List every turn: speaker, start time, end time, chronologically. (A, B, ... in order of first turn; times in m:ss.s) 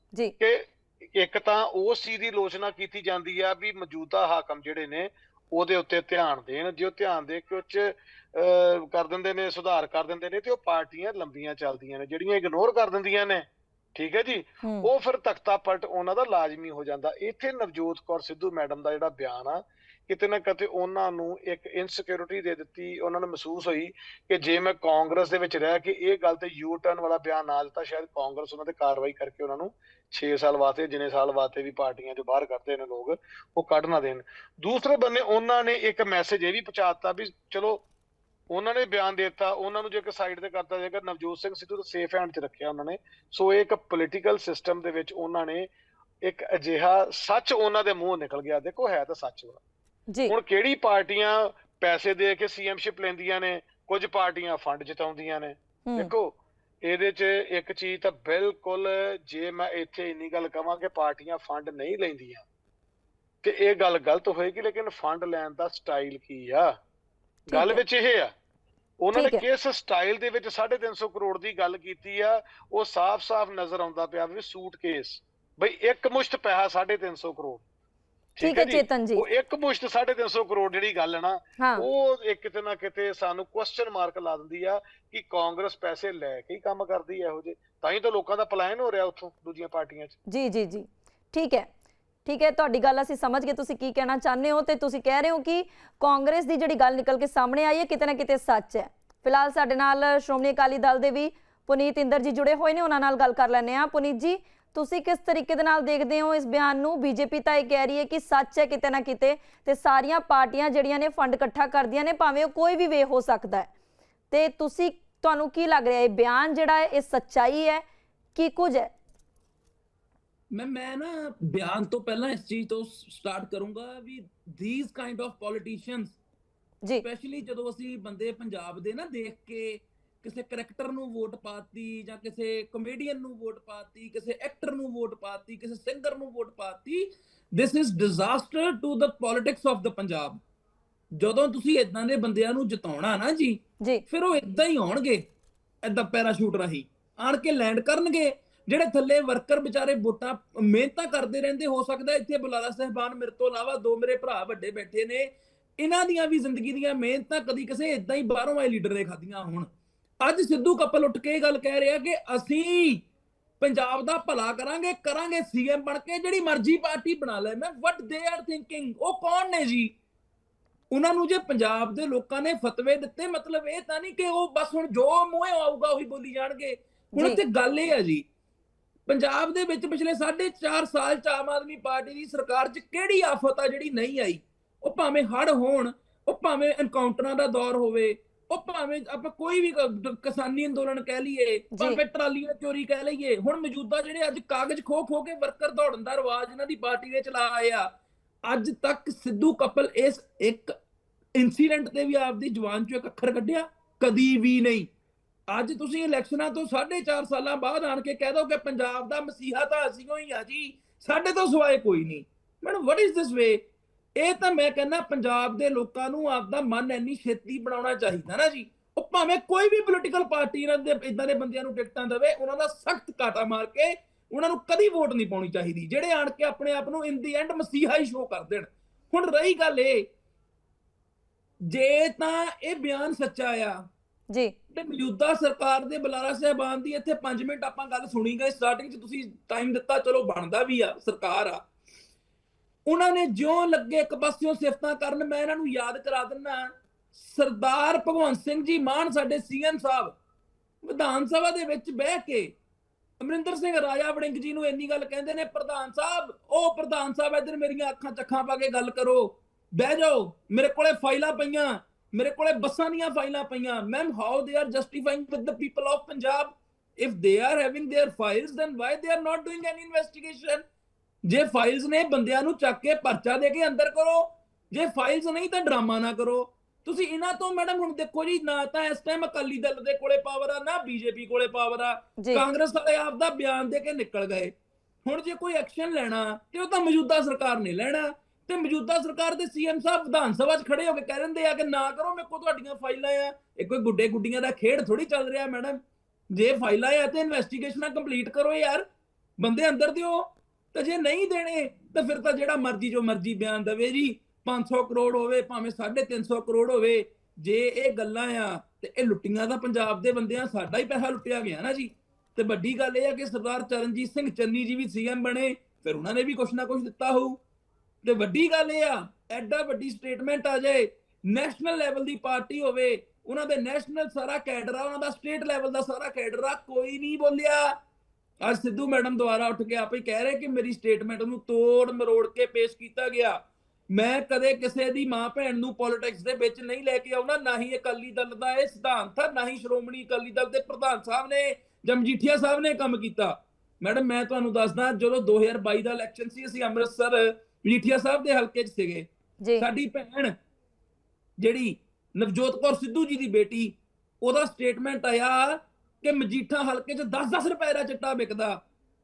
0:00.4-0:37.8 A
0:14.6-0:14.9 B
0:38.5-0:45.7 A
0:46.2-0:49.6 A
0:50.3-1:02.4 A
0:55.8-0:56.1 B
1:03.4-1:06.7 A
1:07.5-1:08.3 A
1:07.5-1:07.8 B
1:09.0-1:17.6 A
1:09.1-1:09.4 B
1:18.4-1:30.2 A
1:18.4-1:19.2 B
1:21.6-1:21.8 B
1:30.3-1:31.7 B
1:32.2-1:53.7 B
1:54.3-1:57.8 B
1:58.3-1:58.9 B
2:00.5-2:06.2 C
2:07.0-2:20.4 C
2:21.2-2:25.2 C
2:25.8-2:39.7 C
2:40.2-2:43.0 C
2:43.6-2:49.9 C
2:50.9-2:58.2 C
2:57.2-2:57.4 B
2:59.1-3:17.9 C
3:11.7-3:12.0 B
3:18.4-3:20.7 C
3:21.4-3:24.9 C
3:25.5-3:33.6 C
3:34.2-3:50.1 C
3:51.6-3:53.8 C
3:54.7-4:01.6 C
4:02.8-4:10.1 C
4:10.8-4:12.5 C
4:13.2-4:30.6 C
4:31.2-4:44.5 C
4:42.2-4:42.4 B
4:45.0-4:58.8 C
4:59.4-5:17.4 C
5:18.0-5:27.8 C
5:28.4-5:33.4 C
5:33.9-5:49.1 C
5:49.6-5:50.3 C
5:51.4-5:58.6 C